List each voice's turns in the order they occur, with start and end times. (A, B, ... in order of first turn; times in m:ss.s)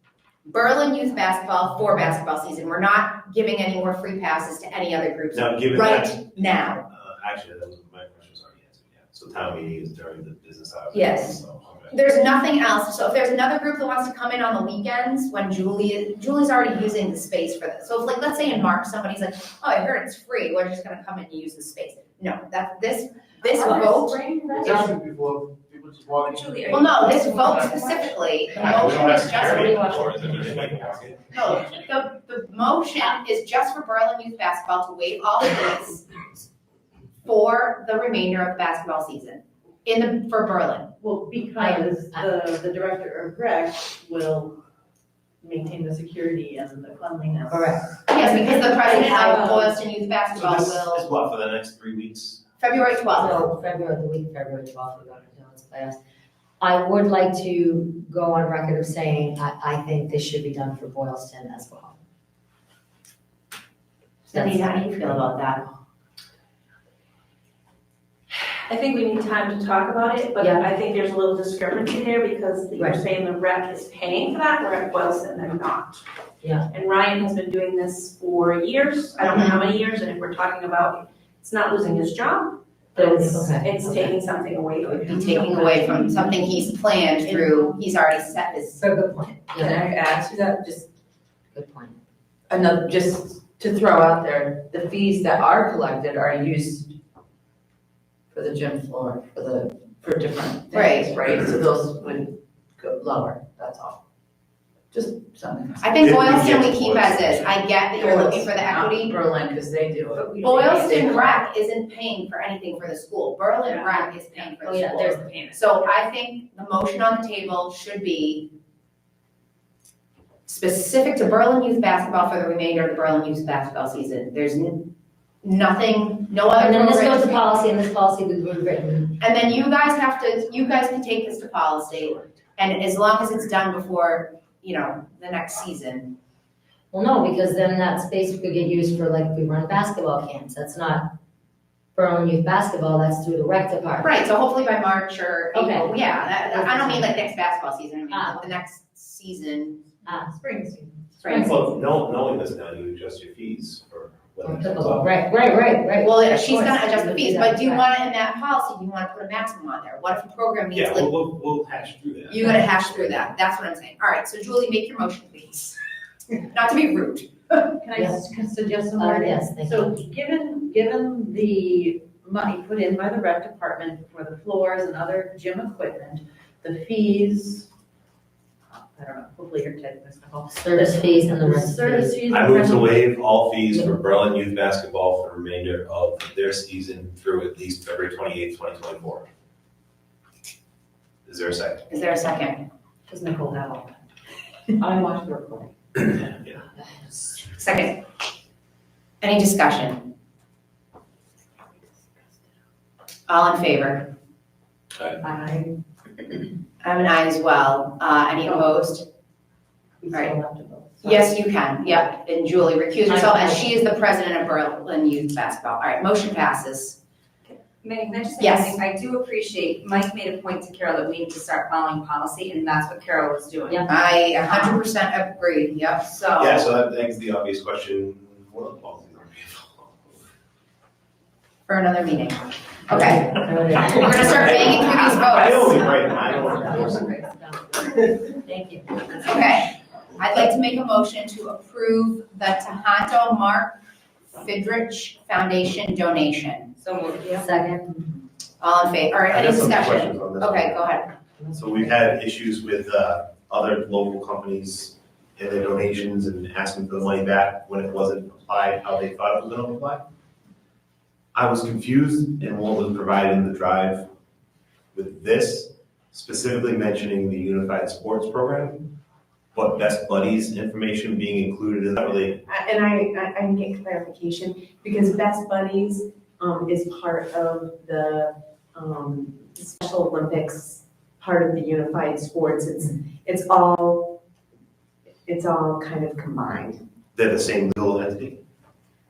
0:00.4-0:06.8 A
0:05.3-0:06.2 B
0:06.9-0:11.9 B
0:11.9-0:24.8 A
0:23.6-0:23.9 C
0:24.6-0:25.0 C
0:24.7-0:26.6 D
0:26.1-0:28.1 E
0:26.7-0:29.8 A
0:28.5-0:31.3 B
0:29.4-0:29.7 D
0:29.5-0:30.8 C
0:31.3-0:36.0 A
0:37.2-0:40.9 A
0:41.0-0:44.6 F
0:41.6-0:42.3 C
0:45.4-0:49.7 F
0:47.5-0:47.9 C
0:48.0-0:51.2 A
0:50.4-0:52.7 B
0:52.6-0:53.4 A
0:53.1-0:56.0 C
0:56.6-1:02.0 C
1:04.3-1:05.6 A
1:04.3-1:04.8 C
1:08.6-1:16.0 G
1:10.4-1:10.6 C
1:16.4-1:16.7 C
1:16.7-1:26.0 G
1:19.2-1:19.6 A
1:22.9-1:24.1 C
1:25.1-1:28.8 A
1:28.8-1:29.9 C
1:29.5-1:30.9 H
1:31.5-1:32.0 C
1:32.5-1:36.9 H
1:38.3-1:44.0 H
1:40.7-1:41.2 A
1:44.9-1:46.0 H
1:45.8-1:49.1 A
1:46.0-1:47.6 B
1:48.1-1:51.4 H
1:50.4-1:58.5 A
1:53.8-1:55.5 C
2:00.4-2:04.9 A
2:05.4-2:07.5 A
2:06.5-2:09.2 C
2:09.2-2:16.1 A
2:16.9-2:21.1 C
2:21.9-2:24.1 C
2:24.0-2:29.8 A
2:25.5-2:27.3 C
2:28.1-2:28.5 C
2:30.0-2:30.3 C
2:30.1-2:31.6 F
2:31.2-2:31.5 A
2:31.3-2:35.1 B
2:34.4-2:37.8 C
2:36.0-2:41.1 A
2:40.7-2:43.3 B
2:42.3-2:45.8 A
2:46.4-2:47.8 A
2:47.8-2:57.7 F
2:47.9-2:48.3 C
2:49.0-2:50.1 C
2:58.7-3:02.9 F
3:00.5-3:02.2 C
3:02.3-3:09.2 B
3:11.2-3:11.8 B
3:11.9-3:12.6 A
3:13.3-3:13.9 F
3:14.8-3:15.7 H
3:17.5-3:18.0 A
3:19.2-3:20.1 A
3:23.3-3:24.1 A
3:26.8-3:29.0 A
3:30.1-3:30.4 A
3:30.1-3:30.9 F
3:31.0-3:37.0 A
3:33.1-3:33.7 C
3:37.5-3:43.8 E
3:38.4-3:38.8 A
3:43.9-3:46.7 A
3:46.4-3:49.9 B
3:51.7-3:56.0 A
3:52.9-3:59.0 C
3:54.3-3:57.1 B
3:59.1-4:03.8 A
4:04.3-4:06.7 A
4:06.8-4:07.4 E
4:07.3-4:07.9 C
4:08.6-4:11.1 A
4:09.3-4:10.8 B
4:11.5-4:20.0 B
4:21.3-4:24.0 B
4:24.9-4:28.8 B
4:29.5-4:32.4 B
4:32.4-4:44.2 I
4:45.2-4:46.8 I
4:47.1-4:48.4 B